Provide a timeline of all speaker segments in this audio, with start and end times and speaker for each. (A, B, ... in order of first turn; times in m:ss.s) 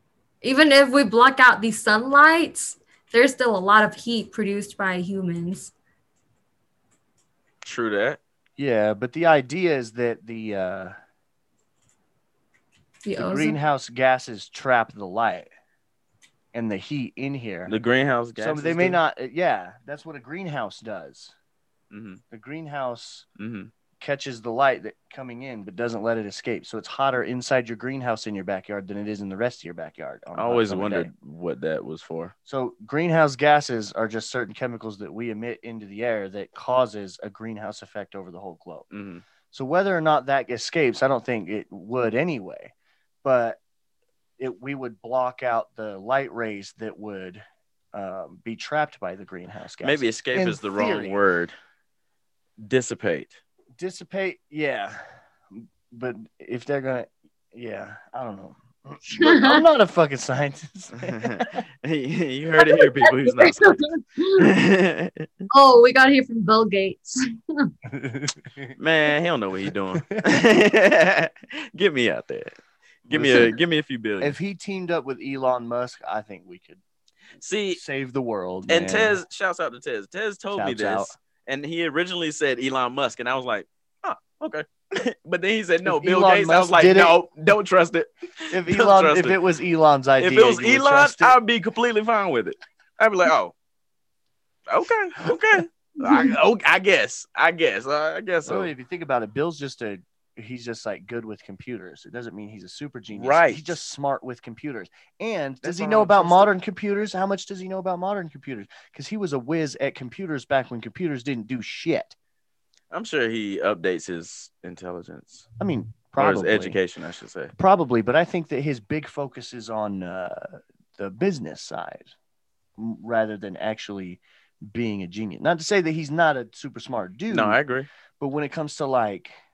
0:00.4-0:05.7 A
0:07.6-0:08.2 B
0:08.6-0:11.0 C
0:13.0-0:13.6 A
0:13.2-0:15.5 C
0:16.5-0:17.7 C
0:17.7-0:19.0 B
0:18.4-0:21.4 C
0:21.9-0:22.2 B
0:22.3-0:23.3 C
0:23.4-0:23.7 B
0:24.0-0:31.1 C
0:30.4-0:32.3 B
0:32.5-0:38.9 C
0:38.9-0:39.2 B
0:39.5-0:42.7 C
0:43.2-0:43.6 C
0:44.4-0:47.4 C
0:47.9-0:51.2 C
0:49.8-0:51.5 B
0:52.6-0:53.4 B
0:53.8-1:01.6 C
0:59.1-0:59.6 A
1:01.1-1:03.8 B
1:02.6-1:04.5 A
1:04.4-1:05.3 B
1:05.5-1:07.7 A
1:07.9-1:08.8 C
1:08.8-1:14.4 B
1:13.1-1:13.6 C
1:14.2-1:16.8 C
1:17.4-1:17.8 B
1:17.7-1:19.2 C
1:18.7-1:29.4 B
1:20.5-1:21.1 C
1:25.8-1:27.2 C
1:28.5-1:31.4 C
1:30.2-1:33.5 B
1:34.7-1:38.7 B
1:38.4-1:52.2 C
1:43.1-1:43.8 B
1:45.6-1:46.5 B
1:52.9-1:55.5 B
1:55.6-1:56.8 C
1:56.2-1:57.5 B
1:57.6-2:02.1 C
2:02.8-2:07.6 C
2:07.3-2:07.9 B
2:08.2-2:09.3 C